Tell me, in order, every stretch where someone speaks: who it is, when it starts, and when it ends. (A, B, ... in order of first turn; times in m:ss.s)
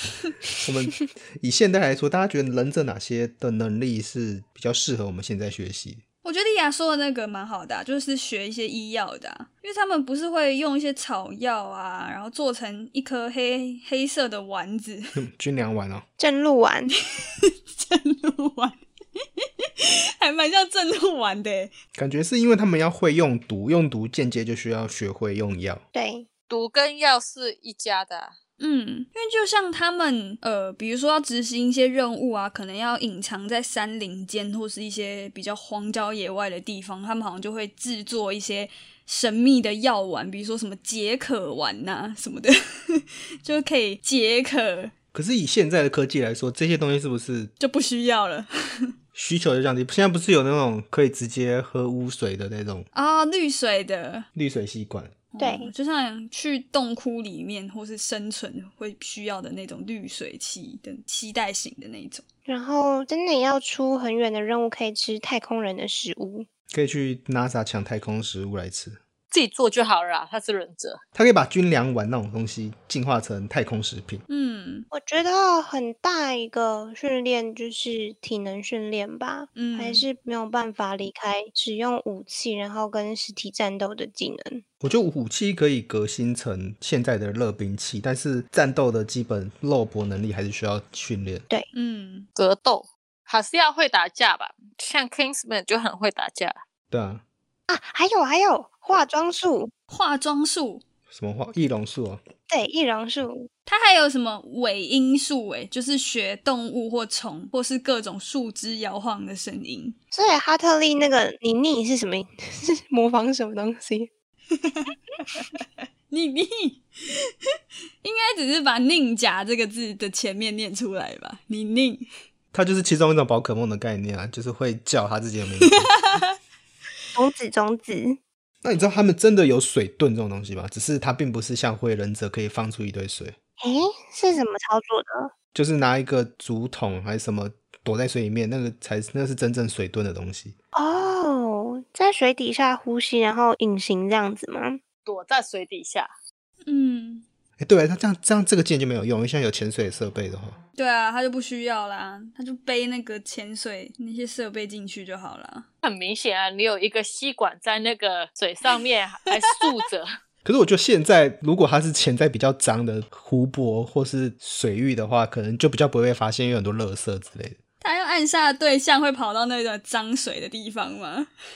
0:00.6-0:06.0 A
0:06.2-0:15.1 B
0:15.2-0:16.0 A
0:16.2-0:16.9 C
0:17.4-0:18.8 B
0:19.4-0:21.7 B
0:21.9-0:25.8 A
0:25.9-0:26.3 C
0:26.5-0:28.3 D
0:28.6-0:44.9 B
0:45.1-0:47.5 A
0:47.6-0:48.5 B
0:49.1-0:52.8 A
0:52.9-0:54.2 B
0:54.3-0:55.2 A
0:55.3-1:02.2 B
0:55.4-0:55.7 C
1:02.4-1:06.5 C
1:06.7-1:09.0 A
1:09.3-1:11.0 D
1:11.1-1:14.2 A
1:14.3-1:14.9 B
1:14.9-1:24.6 C
1:19.6-1:20.0 B
1:24.8-1:31.4 A
1:31.7-1:32.3 B
1:32.4-1:36.6 D
1:36.9-1:37.2 A
1:37.7-1:39.7 C
1:39.9-1:40.8 B
1:41.1-1:42.2 A
1:42.5-1:43.5 C
1:43.7-1:50.0 B
1:50.1-1:54.1 C
1:54.6-1:55.4 B
1:56.1-1:56.8 B
1:58.0-2:02.0 B
2:02.5-2:06.2 A
2:05.7-2:06.3 B
2:07.1-2:08.2 C
2:08.6-2:13.4 A
2:13.6-2:15.3 C
2:15.5-2:20.5 A
2:20.7-2:24.8 C
2:25.0-2:26.1 D
2:26.6-2:27.2 B
2:27.6-2:30.6 A
2:30.8-2:35.7 B
2:35.8-2:40.1 D
2:40.4-2:47.6 A
2:47.8-2:51.3 B